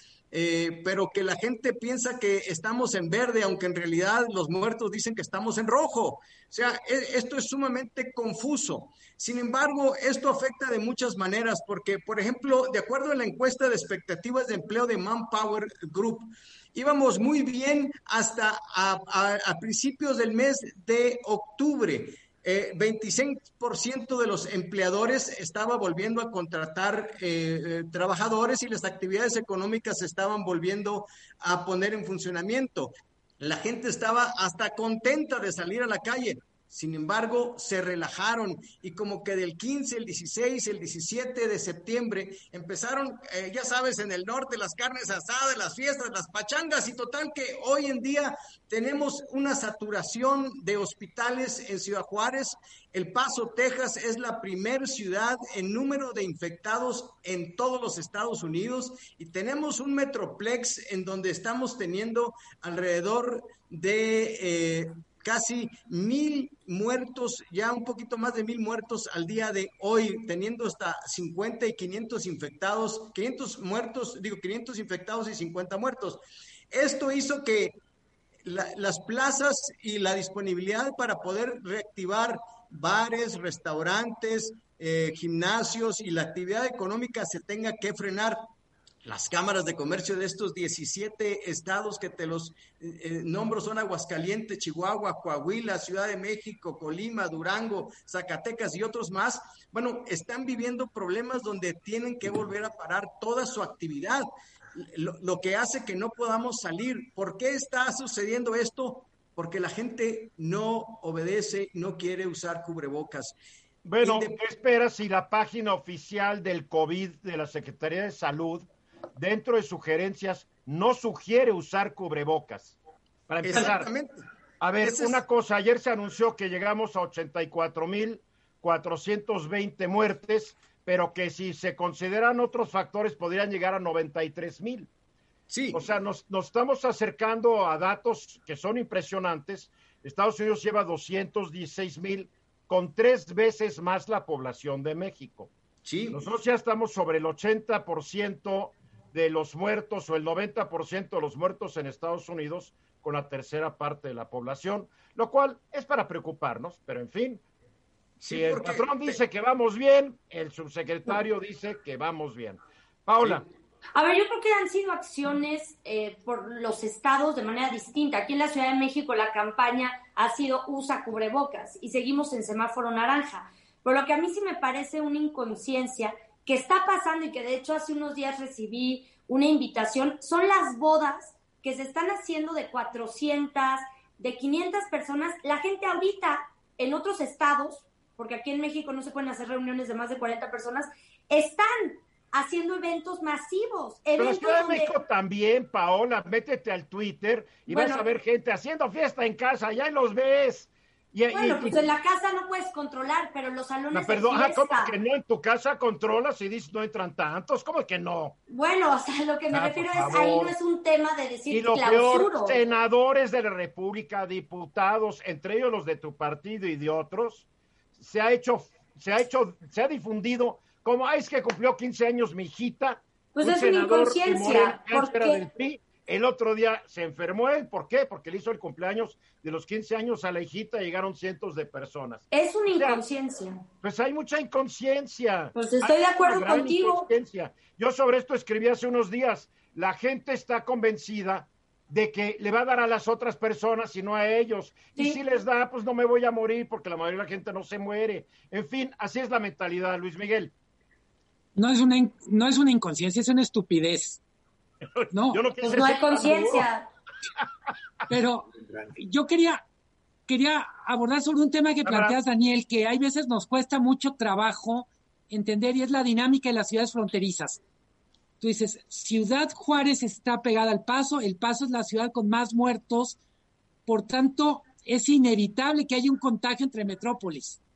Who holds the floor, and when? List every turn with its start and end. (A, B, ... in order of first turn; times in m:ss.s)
0:00.3-1:16.2 A
1:16.7-1:17.8 A
1:18.4-1:28.4 A
1:29.0-1:53.3 A
1:53.8-2:02.8 B
1:54.0-1:54.3 A
2:03.3-2:03.9 B
2:03.4-2:04.1 A
2:04.6-2:14.9 B
2:04.8-2:05.2 A
2:15.5-2:15.8 A
2:15.7-2:25.5 B
2:25.8-2:26.2 A
2:26.1-2:37.4 B
2:38.2-2:39.2 A
2:38.3-2:43.4 B
2:43.9-3:14.9 C
3:14.2-3:21.8 B
3:17.7-3:18.0 C
3:21.3-3:24.9 C
3:23.9-3:28.4 B
3:28.5-3:32.6 C
3:29.5-3:30.5 B
3:31.5-3:37.4 B
3:38.0-3:52.2 B
3:43.3-3:45.4 C
3:52.3-3:53.6 C
3:52.8-3:53.0 B
3:53.8-4:10.5 B
3:55.6-3:57.1 C
4:11.6-4:14.2 D
4:14.9-4:16.7 B
4:15.1-4:15.4 D
4:15.6-4:16.9 C
4:18.1-4:19.6 D
4:20.3-4:27.6 D
4:21.8-4:22.2 B
4:28.4-4:33.2 D
4:33.9-4:37.6 D